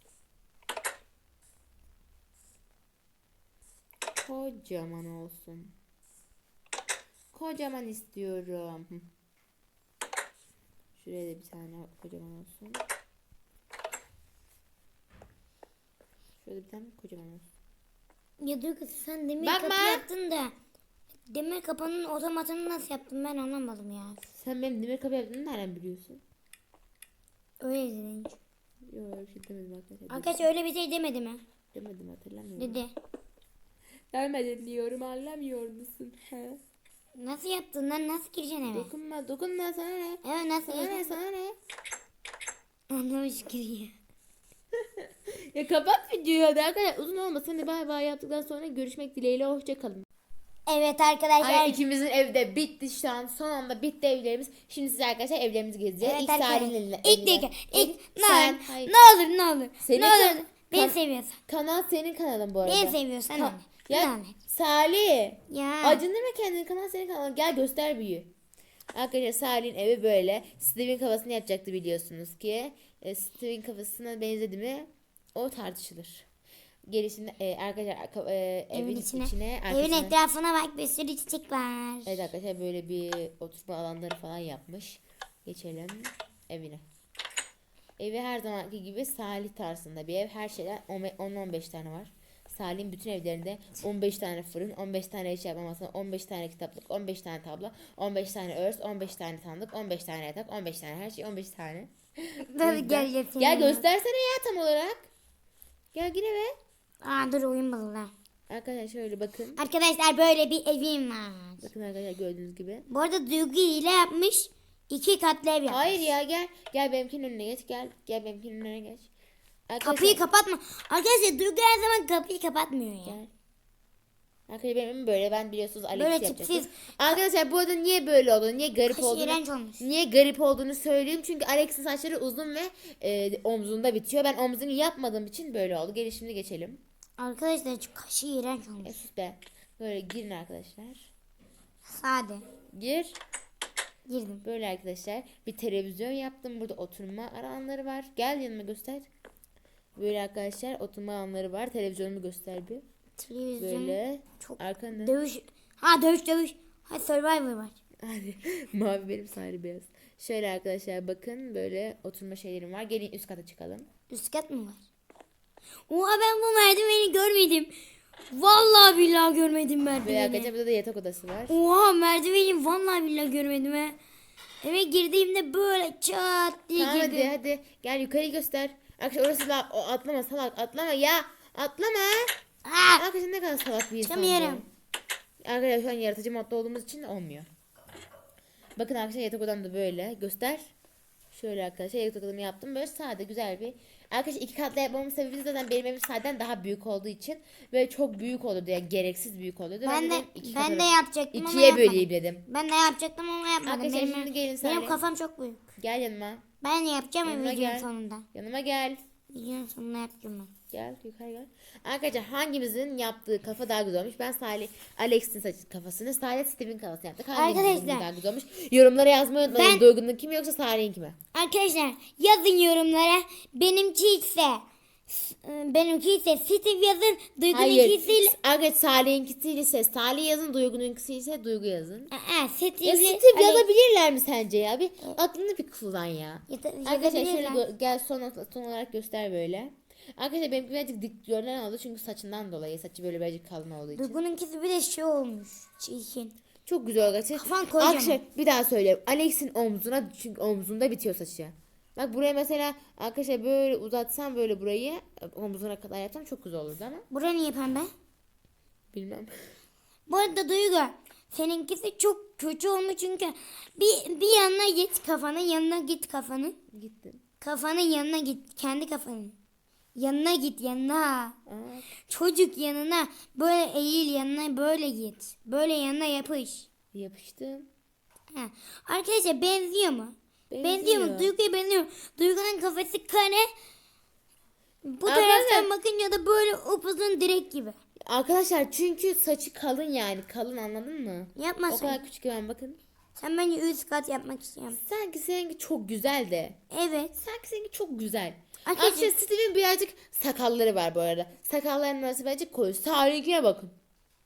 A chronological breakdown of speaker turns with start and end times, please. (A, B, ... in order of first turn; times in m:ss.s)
0:04.2-0:05.7 A
0:07.3-0:09.1 A
0:11.0-0:12.8 A
0:16.4-0:17.5 A
0:18.4-0:20.5 B
0:19.4-0:20.1 A
0:21.3-0:24.2 B
0:24.3-0:26.2 A
0:27.6-0:28.4 B
0:28.9-0:30.5 A
0:30.1-0:31.4 B
0:31.7-0:32.8 A
0:32.6-0:32.9 B
0:34.1-0:36.6 A
0:37.2-0:38.9 B
0:38.7-0:41.6 A
0:40.2-0:41.2 B
0:42.9-0:43.9 B
0:45.0-0:50.0 A
0:50.7-0:51.8 B
0:51.4-0:58.9 A
0:56.0-1:01.4 B
0:59.8-1:08.3 A
1:02.6-1:04.4 B
1:05.5-1:06.0 B
1:08.9-1:16.3 A
1:16.9-1:20.2 A
1:18.7-1:22.3 B
1:22.0-1:26.8 A
1:28.0-1:45.1 A
1:42.5-1:43.8 B
1:45.9-1:46.5 A
1:47.0-1:48.1 B
1:48.5-1:49.6 A
1:49.6-1:51.7 B
1:51.6-1:52.8 A
1:52.9-1:56.0 B
1:55.7-1:59.1 A
1:59.7-2:00.2 A
1:59.8-2:03.2 B
2:03.0-2:03.3 A
2:04.5-2:16.8 A
2:05.9-2:07.2 B
2:08.9-2:09.8 B
2:17.2-2:19.0 B
2:18.8-2:21.1 A
2:21.8-2:22.5 B
2:22.7-2:23.2 A
2:24.1-2:24.4 B
2:24.4-2:29.1 A
2:30.0-2:32.8 A
2:33.2-2:37.8 B
2:33.6-2:35.2 A
2:38.0-2:43.9 A
2:44.1-2:44.8 B
2:45.9-2:47.7 B
2:48.3-2:50.5 B
2:50.0-2:51.6 A
2:51.5-2:54.0 B
2:54.6-2:57.3 B
2:56.7-3:02.3 A
3:02.6-3:03.0 B
3:03.0-3:04.7 A
3:04.0-3:04.6 B
3:05.4-3:07.5 A
3:08.8-3:10.7 A
3:11.3-3:22.4 A
3:19.8-3:25.6 B
3:23.6-3:25.0 A
3:25.8-3:26.4 A
3:26.6-3:28.2 B
3:27.2-3:29.0 A
3:29.3-3:30.5 B
3:30.7-3:41.2 A
3:37.3-3:38.1 B
3:39.5-3:39.9 B
3:41.3-3:48.3 B
3:47.5-3:52.1 A
3:52.1-3:53.6 B
3:52.8-4:04.2 A
3:56.5-3:57.6 B
4:03.9-4:06.4 B
4:06.6-4:17.1 A
4:07.3-4:08.2 B
4:17.1-4:17.9 B
4:18.9-4:19.3 A
4:20.1-4:26.6 B
4:26.7-4:27.2 A
4:27.4-4:29.4 B
4:29.9-4:31.4 B
4:31.4-4:31.9 A
4:32.0-4:36.7 B
4:36.9-4:37.7 A
4:38.3-4:43.5 B
4:40.5-4:41.3 A
4:44.8-4:47.8 B
4:45.0-4:45.7 A
4:48.0-4:52.8 A
4:51.4-4:52.0 B
4:53.2-4:54.8 B
4:54.7-4:56.6 A
4:56.7-4:57.1 B
4:57.1-5:03.7 A
4:58.6-4:59.1 B